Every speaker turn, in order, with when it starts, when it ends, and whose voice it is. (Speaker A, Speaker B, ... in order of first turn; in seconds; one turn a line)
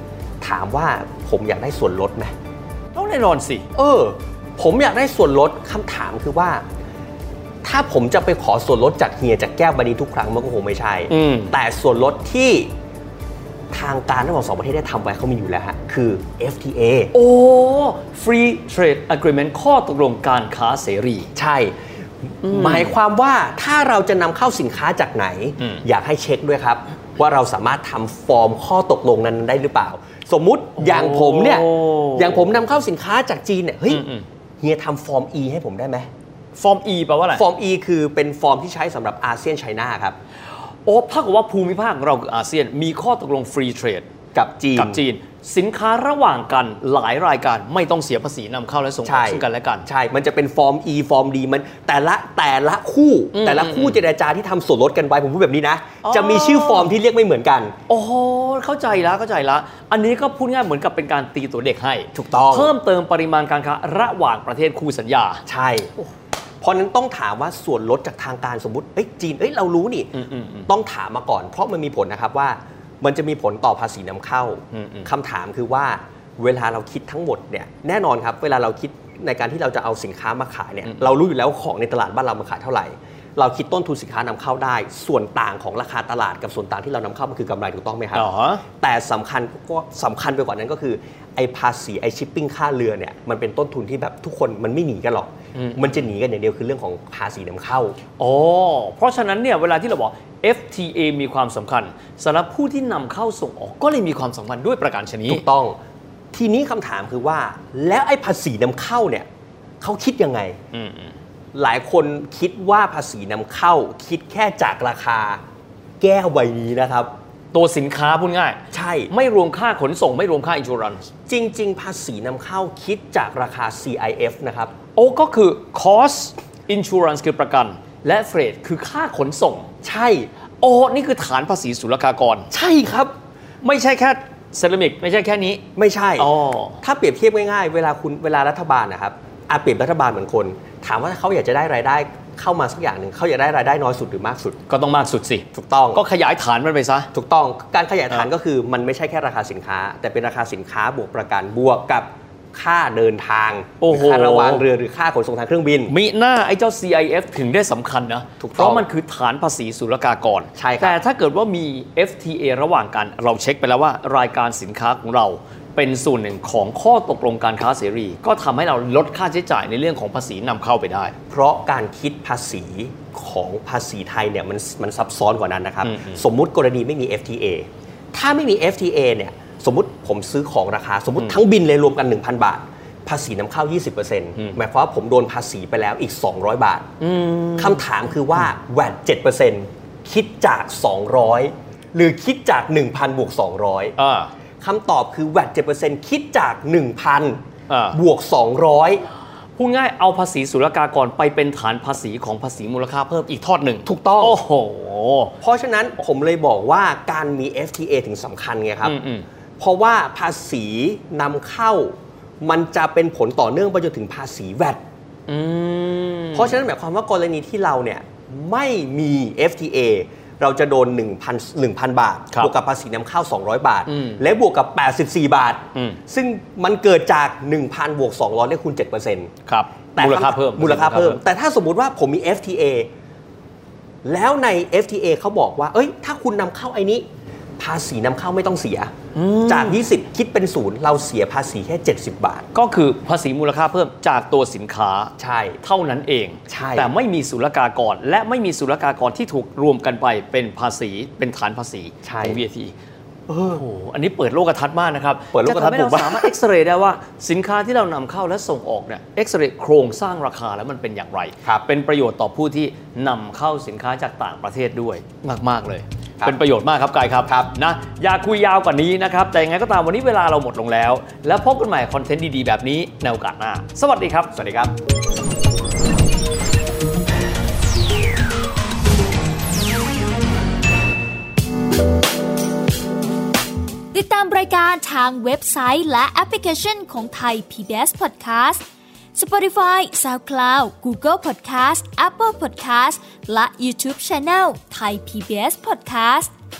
Speaker A: 0.4-2.3
Speaker B: 2.9-3.7
Speaker A: 3.7-6.6
Speaker A: 7.6-12.7
Speaker B: 11.1-11.5
Speaker A: 13.7-17.1
Speaker B: 17.1-21.3
Speaker A: 21.3-21.8
Speaker A: 22.3-34.0
Speaker B: 22.4-22.9
Speaker B: 30.8-32.5
Speaker B: 33.9-34.2
Speaker A: 34.6-36.1
Speaker B: 36.5-37.4
Speaker A: 37.3-40.2
Speaker B: 40.9-44.1
Speaker A: 44.3-45.0
Speaker B: 44.7-49.9
Speaker A: 49.0-57.7
Speaker B: 53.3-54.0
Speaker B: 56.0-56.9
Speaker B: 57.9-65.4
Speaker A: 62.1-62.7
Speaker A: 65.5-65.9
Speaker A: 66.6-70.1
Speaker B: 70.1-70.7
Speaker A: 70.7-88.3
Speaker B: 74.7-75.1
Speaker B: 88.1-88.6
Speaker A: 88.8-98.0
Speaker B: 95.5-96.0
Speaker B: 98.2-105.4
Speaker A: 105.3-105.8
Speaker A: 106.3-109.3
Speaker A: 109.8-110.6
Speaker B: 110.7-111.2
Speaker A: 111.5-115.4
Speaker A: 116.0-117.1
Speaker B: 117.5-121.0
Speaker A: 118.7-119.1
Speaker A: 121.3-124.7
Speaker B: 124.9-129.7
Speaker A: 129.8-130.3
Speaker B: 130.6-132.5
Speaker A: 132.5-133.1
Speaker B: 133.6-135.7
Speaker A: 135.7-144.6
Speaker B: 136.2-136.8
Speaker B: 144.7-147.1
Speaker A: 145.5-146.0
Speaker A: 147.1-155.9
Speaker B: 153.8-154.7
Speaker B: 155.9-171.1
Speaker A: 158.4-158.9
Speaker A: 160.6-161.0
Speaker A: 171.3-186.9
Speaker B: 175.8-176.2
Speaker B: 187.0-187.9
Speaker A: 187.6-193.9
Speaker B: 194.0-194.3
Speaker A: 194.6-197.4
Speaker B: 197.7-198.0
Speaker A: 197.9-199.1
Speaker B: 199.6-205.3
Speaker A: 203.8-204.4
Speaker A: 205.4-208.9
Speaker B: 208.8-209.2
Speaker A: 209.6-214.8
Speaker B: 215.3-216.6
Speaker A: 216.3-229.3
Speaker B: 223.9-224.2
Speaker B: 229.4-231.2
Speaker A: 229.9-232.9
Speaker A: 234.0-237.0
Speaker A: 237.6-238.9
Speaker B: 239.1-239.8
Speaker A: 239.4-242.5
Speaker B: 242.5-252.7
Speaker A: 245.2-245.6
Speaker A: 246.5-246.9
Speaker A: 252.0-252.4
Speaker A: 253.3-253.6
Speaker B: 253.5-274.3
Speaker A: 255.3-256.3
Speaker A: 267.2-267.5
Speaker A: 274.3-274.7
Speaker C: 283.9-288.6
Speaker C: 289.1-296.3